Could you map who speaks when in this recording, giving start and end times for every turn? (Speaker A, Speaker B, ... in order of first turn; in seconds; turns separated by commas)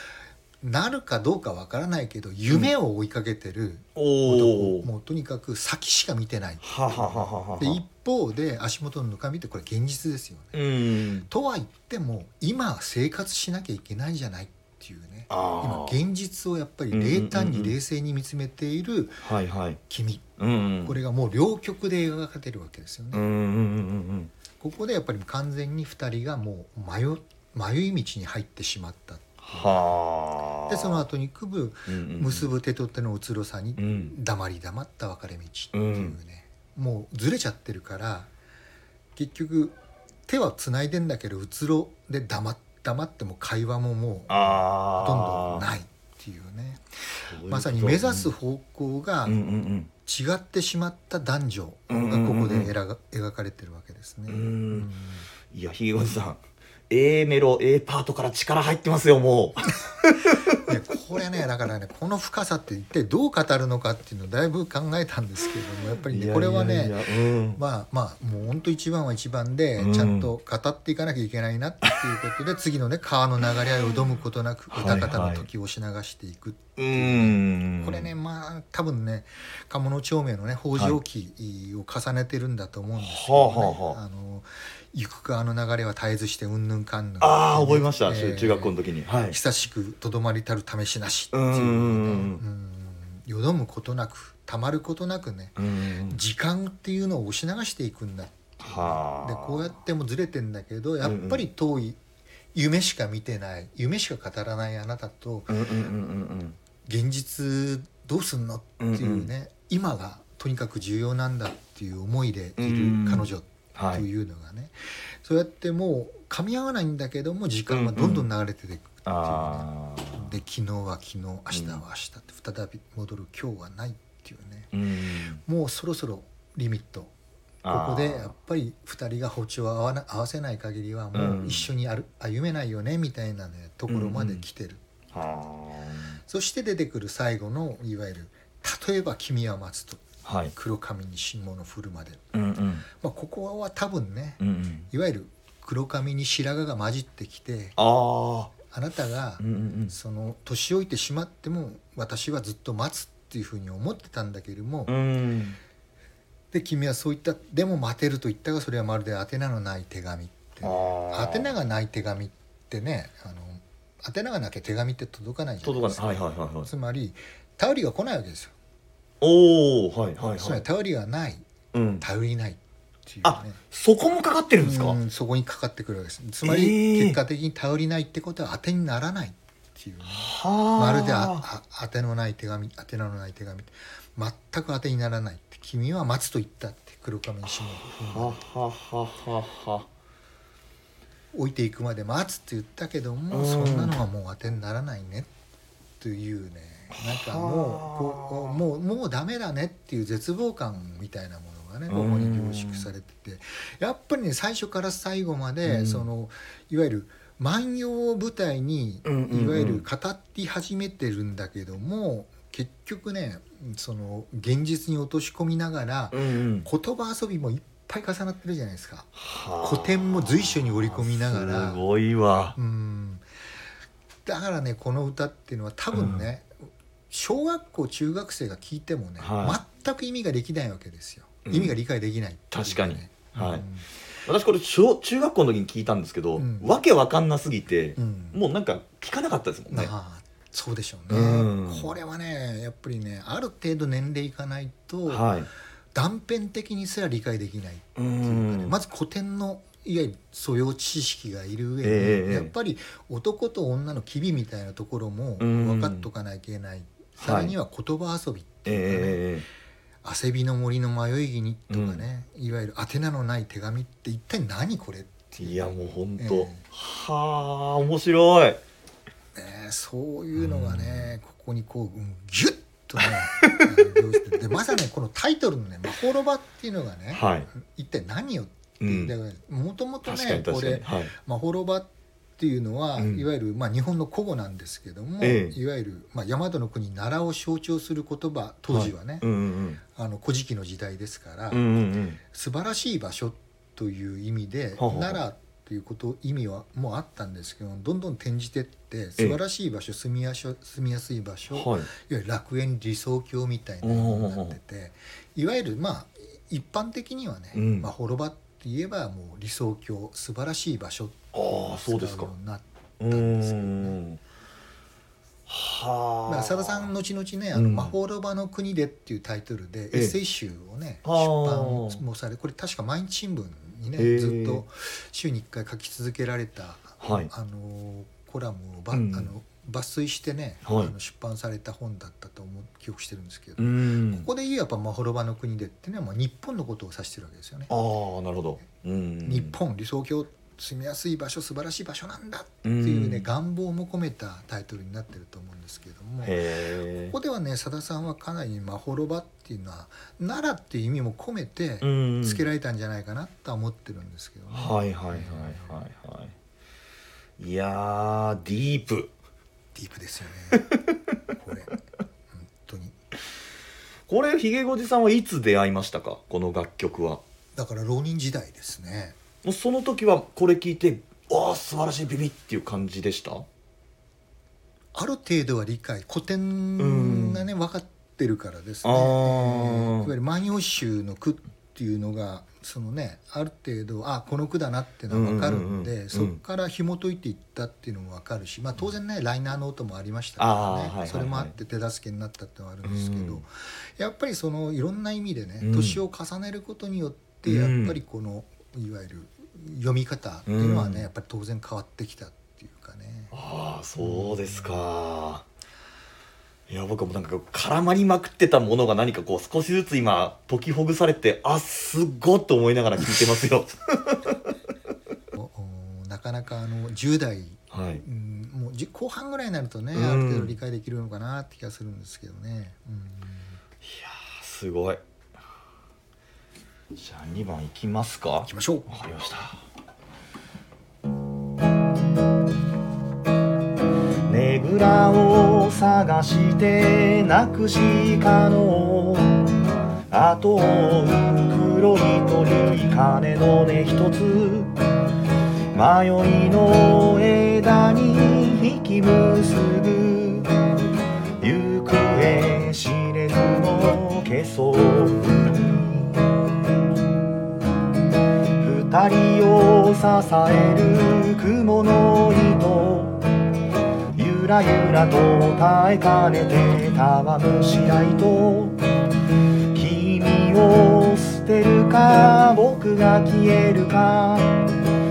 Speaker A: 0.6-10.5, Speaker B: 4.0-4.9, Speaker B: 6.6-7.8, Speaker B: 10.5-11.3, Speaker A: 11.3-19.2, Speaker B: 15.3-16.0, Speaker B: 16.9-17.7, Speaker B: 19.2-19.8, Speaker A: 19.9-20.2, Speaker B: 20.4-21.0, Speaker A: 20.8-23.2, Speaker B: 23.1-24.3, Speaker A: 24.6-29.8, Speaker B: 29.4-31.0, Speaker A: 30.7-38.3, Speaker B: 31.9-32.5, Speaker B: 33.8-34.1, Speaker B: 35.7-36.2, Speaker A: 39.1-39.7, Speaker A: 40.3-49.4, Speaker B: 44.3-45.7, Speaker B: 47.2-48.3, Speaker B: 49.2-49.9, Speaker A: 50.0-55.3, Speaker B: 51.9-52.7, Speaker B: 54.3-54.9, Speaker B: 55.5-60.6, Speaker A: 60.6-67.0, Speaker B: 66.1-67.6, Speaker A: 67.5-88.8, Speaker B: 69.8-70.3, Speaker B: 74.7-75.5, Speaker B: 76.8-78.1, Speaker B: 83.0-84.0, Speaker B: 87.2-89.4, Speaker A: 89.3-102.0, Speaker B: 91.3-92.4, Speaker B: 95.6-96.2, Speaker B: 98.6-99.7, Speaker B: 101.0-101.4, Speaker A: 102.5-105.6, Speaker B: 105.5-106.6, Speaker A: 106.8-124.7, Speaker B: 108.8-109.3, Speaker B: 112.6-114.0, Speaker B: 117.7-118.3, Speaker B: 119.0-120.3, Speaker B: 121.5-121.8, Speaker B: 124.7-125.4, Speaker A: 125.4-127.1, Speaker B: 127.6-128.3, Speaker A: 127.7-134.8, Speaker B: 131.1-131.7, Speaker B: 133.9-134.4, Speaker B: 135.1-136.2, Speaker A: 136.3-142.2, Speaker B: 140.2-140.5, Speaker B: 142.3-142.8, Speaker A: 142.9-147.8, Speaker B: 144.4-144.9, Speaker B: 147.8-148.5, Speaker A: 148.6-154.9, Speaker B: 149.4-149.9, Speaker B: 154.9-155.6, Speaker A: 156.5-168.5, Speaker B: 160.6-161.5, Speaker B: 165.6-166.7, Speaker B: 169.2-170.6, Speaker A: 170.3-171.4, Speaker B: 171.7-172.0, Speaker A: 172.0-173.6, Speaker B: 173.2-175.0, Speaker A: 174.6-188.4, Speaker B: 176.4-177.2, Speaker B: 180.1-181.4, Speaker B: 188.1-189.9, Speaker A: 191.3-195.3, Speaker B: 193.3-193.9, Speaker A: 196.0-219.1, Speaker B: 196.9-198.6, Speaker B: 201.9-202.9, Speaker B: 205.6-206.1, Speaker B: 209.0-209.8, Speaker B: 216.1-216.7, Speaker B: 219.1-222.6, Speaker A: 219.6-221.8, Speaker A: 222.6-223.2, Speaker A: 224.2-226.5, Speaker B: 225.9-226.2, Speaker A: 227.1-233.8, Speaker B: 229.2-229.6, Speaker B: 231.4-231.7, Speaker B: 232.5-233.7, Speaker B: 234.2-239.9, Speaker A: 236.4-236.7, Speaker A: 238.0-238.4, Speaker A: 239.7-245.3, Speaker B: 241.1-241.9, Speaker B: 245.1-245.5, Speaker A: 245.9-259.2, Speaker B: 247.9-248.7, Speaker B: 251.8-252.5, Speaker B: 255.4-256.1, Speaker B: 257.2-257.5, Speaker B: 258.6-259.4, Speaker A: 260.0-266.6, Speaker B: 261.7-262.0, Speaker B: 265.4-268.6, Speaker A: 269.3-289.2, Speaker B: 270.3-271.1, Speaker B: 273.0-274.0, Speaker B: 277.1-277.5, Speaker B: 278.8-279.1, Speaker B: 280.0-281.1, Speaker B: 283.0-283.2, Speaker B: 285.2-285.6, Speaker B: 288.7-289.8, Speaker A: 289.9-311.2, Speaker B: 291.5-292.2, Speaker B: 294.8-295.2, Speaker B: 301.5-301.9, Speaker B: 303.8-304.6, Speaker B: 307.5-307.9, Speaker B: 311.3-312.3, Speaker A: 311.8-314.0, Speaker B: 313.0-314.2, Speaker B: 315.5-316.9, Speaker A: 316.3-337.7, Speaker B: 317.5-317.9, Speaker B: 321.0-322.0, Speaker B: 324.0-324.6, Speaker B: 327.0-327.3, Speaker B: 328.9-329.3, Speaker B: 330.6-330.9, Speaker B: 333.6-334.3, Speaker B: 337.7-339.6, Speaker A: 339.2-346.4, Speaker B: 342.6-343.3, Speaker B: 346.2-347.1, Speaker A: 347.1-355.8, Speaker B: 351.8-352.4, Speaker B: 354.5-356.3, Speaker B: 357.4-359.1, Speaker A: 359.7-360.6, Speaker B: 360.5-361.0, Speaker A: 361.4-361.8, Speaker A: 362.3-362.9, Speaker B: 364.1-367.2, Speaker A: 367.5-369.2, Speaker B: 369.4-373.5, Speaker A: 374.9-403.3, Speaker B: 376.8-377.5, Speaker B: 378.8-380.1, Speaker B: 385.1-386.4, Speaker B: 390.4-391.5, Speaker B: 392.8-393.4, Speaker B: 395.6-396.0, Speaker B: 397.4-398.0, Speaker B: 400.5-401.1, Speaker B: 403.3-405.4, Speaker A: 404.0-404.8, Speaker B: 406.7-414.4, Speaker A: 415.3-423.6, Speaker B: 417.7-418.0, Speaker B: 419.9-420.6, Speaker B: 423.8-425.0, Speaker B: 426.9-429.6, Speaker A: 428.4-428.9, Speaker B: 434.3-439.4, Speaker B: 440.1-444.7, Speaker B: 445.7-450.5, Speaker B: 451.4-456.3, Speaker B: 458.6-463.2, Speaker B: 464.1-468.8, Speaker B: 469.7-474.6